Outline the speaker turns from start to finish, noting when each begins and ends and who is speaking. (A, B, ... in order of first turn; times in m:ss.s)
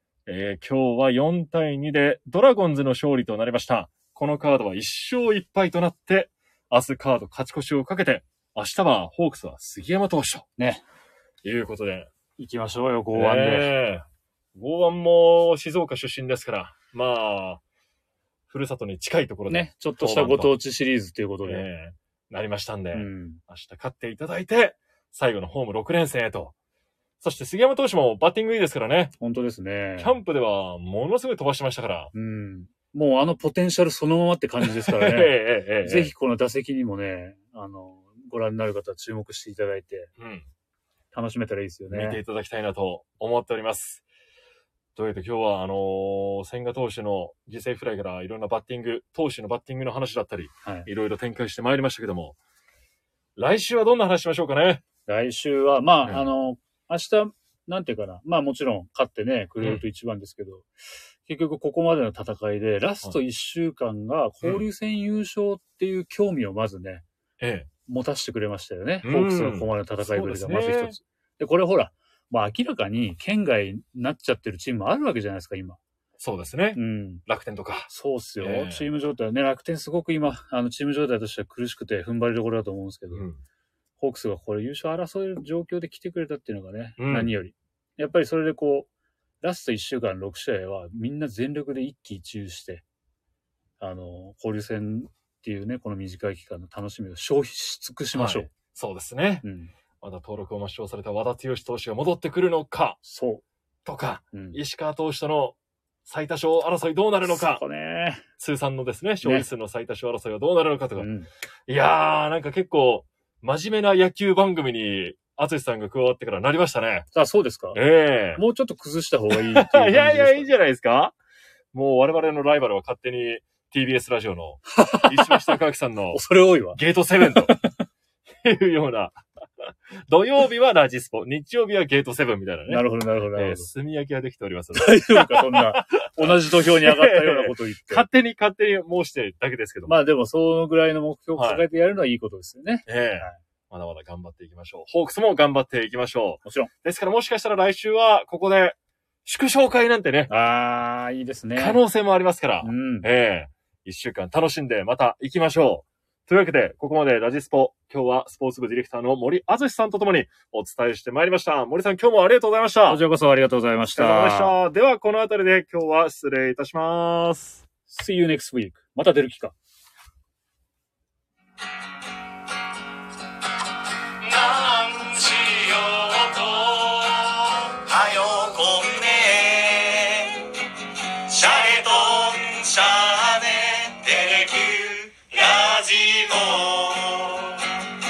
0:00.2-0:10.5 A
0:10.6-0:10.8 B
0:11.4-0:12.1 A
0:12.4-0:13.7 B
0:13.1-0:17.6 A
0:18.5-0:20.5 A
0:19.5-0:21.6 B
0:21.4-0:26.5 A
0:22.9-0:23.4 B
0:27.2-0:29.1 A
0:29.2-0:30.2 B
0:30.0-0:32.1 A
0:32.1-0:40.1 B
0:34.6-0:36.1 A
0:40.2-0:40.5 A
0:41.1-0:42.2 B
0:41.9-0:44.0 A
0:44.9-0:52.4 A
0:53.4-0:54.8 A
0:55.1-1:00.7 B
1:01.2-1:07.0 B
1:07.4-1:07.7 A
1:07.9-1:15.8 B
1:09.0-1:11.0 A
1:16.2-1:17.9 A
1:16.7-1:17.2 B
1:17.9-1:23.2 B
1:18.4-1:18.9 A
1:23.1-1:23.4 A
1:24.0-1:28.9 B
1:27.0-1:27.3 A
1:29.4-1:32.8 B
1:33.8-1:38.5 B
1:38.1-1:39.4 A
1:39.4-1:39.7 B
1:40.0-1:43.0 A
1:43.0-1:43.4 B
1:43.8-1:47.6 A
1:44.3-1:44.6 B
1:47.3-1:48.2 B
1:48.4-1:51.1 A
1:51.0-1:51.3 B
1:51.7-1:57.1 A
1:57.1-1:57.8 B
1:57.7-1:58.4 A
1:58.4-2:00.6 B
1:59.3-2:01.1 A
2:01.7-2:06.2 A
2:04.8-2:05.4 B
2:06.1-2:07.8 B
2:06.7-2:07.5 A
2:08.3-2:20.0 A
2:12.7-2:13.7 B
2:14.7-2:18.0 B
2:19.9-2:23.4 B
2:21.4-2:21.6 A
2:22.8-2:30.3 A
2:26.4-2:26.7 B
2:30.3-2:31.8 B
2:31.6-2:43.0 A
2:32.6-2:33.1 B
2:42.9-2:44.6 B
2:43.9-2:47.6 A
2:47.9-2:49.5 B
2:54.2-3:00.4 C
3:01.2-3:07.6 C